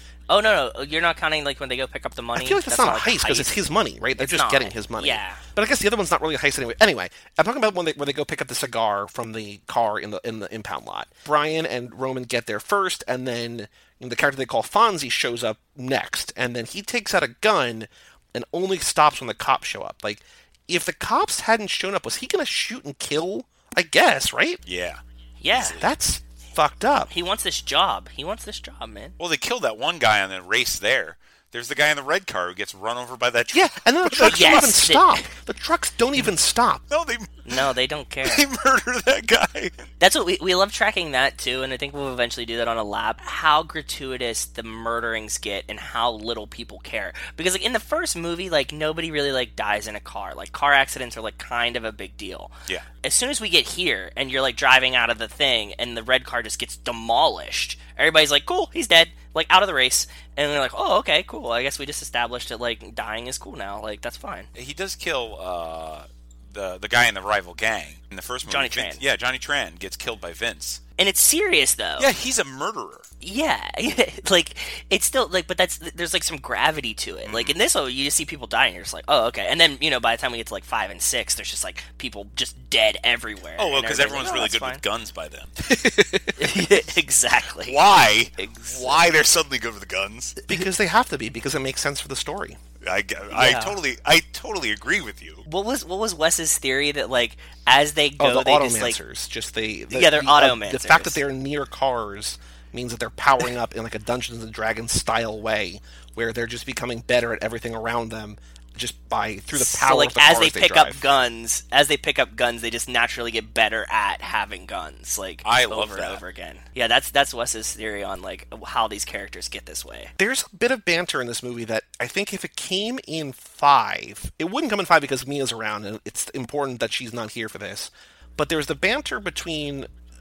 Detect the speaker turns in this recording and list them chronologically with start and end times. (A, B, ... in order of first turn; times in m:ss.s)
0:00.3-0:03.6 A
0:02.3-0:24.6 B
0:04.2-0:05.4 A
0:24.6-0:25.9 C
0:25.4-0:25.8 A
0:25.7-0:27.1 B
0:27.1-0:29.1 A
0:29.2-0:34.8 C
0:33.5-0:36.8 B
0:34.3-0:35.3 A
0:36.9-0:37.4 C
0:37.4-0:38.4 A
0:38.2-0:39.9 C
0:40.0-1:04.5 A
1:04.5-1:10.8 C
1:08.4-1:09.0 A
1:11.0-1:12.1 A
1:12.0-1:13.1 C
1:13.2-1:24.8 A
1:17.2-1:17.6 C
1:23.6-1:25.5 C
1:25.6-1:26.4 B
1:26.4-1:27.8 A
1:27.6-1:30.4 C
1:28.4-1:29.0 A
1:30.5-1:32.6 B
1:32.8-1:35.4 C
1:33.3-1:33.8 A
1:35.4-1:39.0 A
1:38.2-1:51.0 B
1:39.9-1:41.2 A
1:49.5-2:00.1 A
1:55.4-1:56.2 C
2:00.2-2:09.9 B